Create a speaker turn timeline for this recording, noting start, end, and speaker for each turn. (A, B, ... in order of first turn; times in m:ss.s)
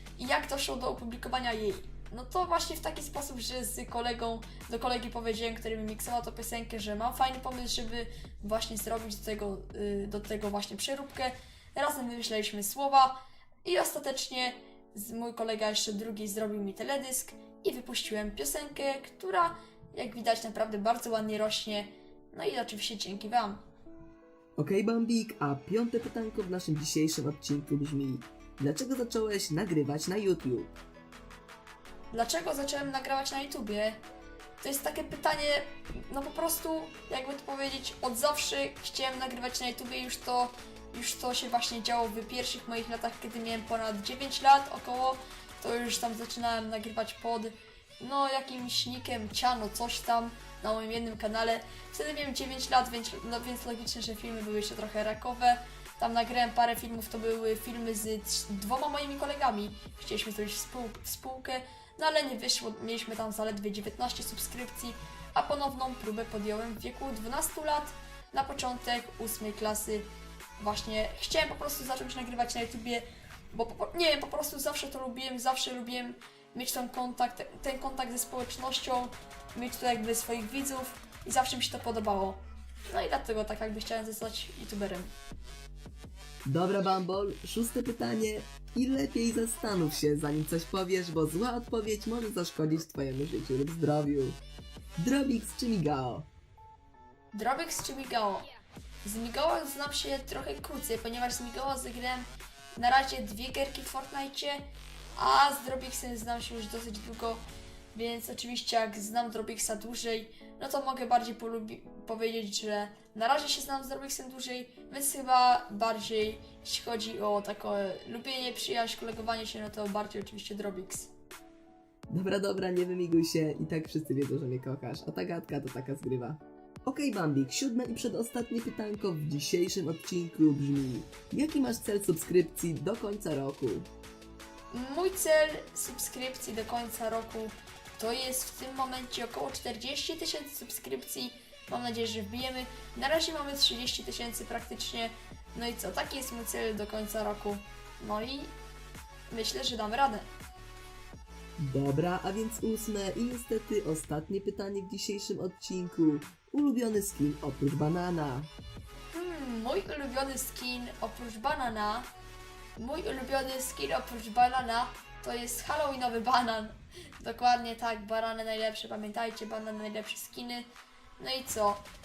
0:00.2-0:23.7 A
0:24.6-0:30.7 B
0:32.1-0:34.0 A
0:34.6-1:25.1 A
1:26.4-1:34.4 B
1:35.0-1:36.3 B
1:37.3-1:38.5 A
1:39.0-1:44.6 A
1:45.1-2:01.1 A
2:02.1-2:13.9 B
2:14.7-2:28.6 A
2:29.3-2:30.3 A
2:31.6-2:38.5 B
2:39.1-2:42.1 A
2:42.8-2:50.7 A
2:51.2-2:51.9 A